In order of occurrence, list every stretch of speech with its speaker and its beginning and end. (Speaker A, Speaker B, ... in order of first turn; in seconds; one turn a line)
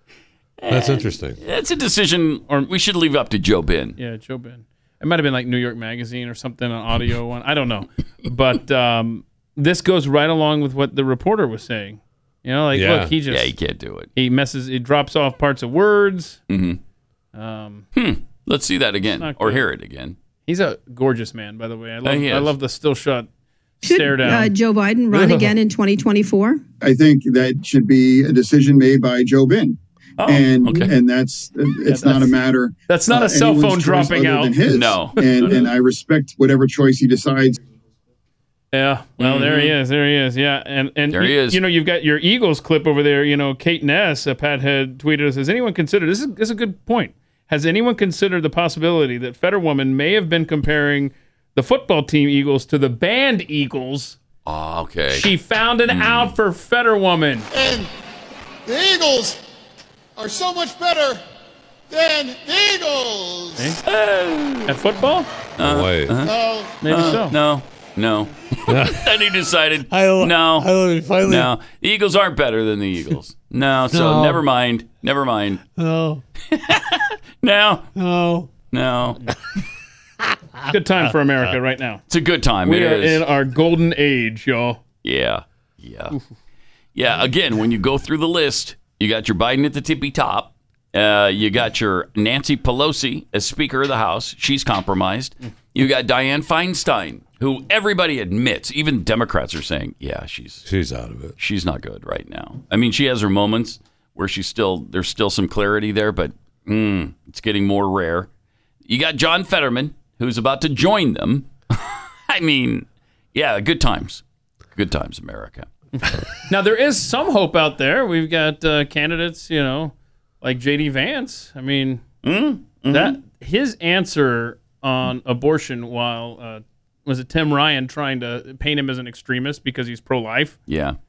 Speaker A: 0.6-4.0
Speaker B: 0.7-1.4
Speaker C: 4.0-13.5
Speaker B: 12.7-13.1
Speaker A: 13.3-14.1
Speaker C: 14.2-16.4
Speaker A: 16.5-16.8
Speaker C: 17.4-17.9
Speaker A: 17.9-20.2
Speaker C: 19.2-19.6
Speaker C: 20.5-23.3
Speaker A: 22.1-22.5
Speaker C: 23.8-24.5
Speaker D: 23.8-26.6
Speaker C: 25.1-25.6
Speaker E: 26.8-37.6
Speaker A: 30.2-30.9
Speaker C: 31.9-32.4
Speaker C: 32.9-34.6
Speaker A: 34.7-35.7
Speaker C: 35.3-35.7
Speaker C: 38.7-54.2
Speaker A: 39.2-39.8
Speaker A: 41.1-41.6
Speaker A: 54.5-55.3
Speaker C: 55.1-57.5
Speaker A: 55.9-56.3
Speaker F: 57.5-57.9
Speaker F: 58.7-59.4
Speaker F: 60.2-61.2
Speaker F: 61.9-63.8
Speaker A: 63.8-64.7
Speaker C: 64.7-65.3
Speaker A: 65.6-66.3
Speaker B: 65.6-66.2
Speaker F: 66.2-66.8
Speaker C: 66.8-67.4
Speaker A: 66.9-70.7
Speaker B: 68.7-69.1
Speaker B: 69.9-71.5
Speaker A: 71.3-75.6
Speaker B: 73.9-74.4
Speaker B: 75.8-76.2
Speaker A: 76.5-77.9
Speaker B: 78.0-78.5
Speaker A: 78.7-79.2
Speaker B: 80.2-80.7
Speaker C: 80.7-82.0
Speaker A: 82.1-83.2
Speaker C: 82.7-84.8
Speaker A: 85.0-86.2
Speaker A: 87.0-100.7
Speaker B: 100.7-101.3
Speaker A: 101.4-108.3
Speaker A: 108.8-114.2
Speaker A: 114.8-115.7
Speaker C: 116.0-122.0
Speaker A: 122.2-123.2
Speaker C: 122.9-130.6
Speaker A: 130.7-131.0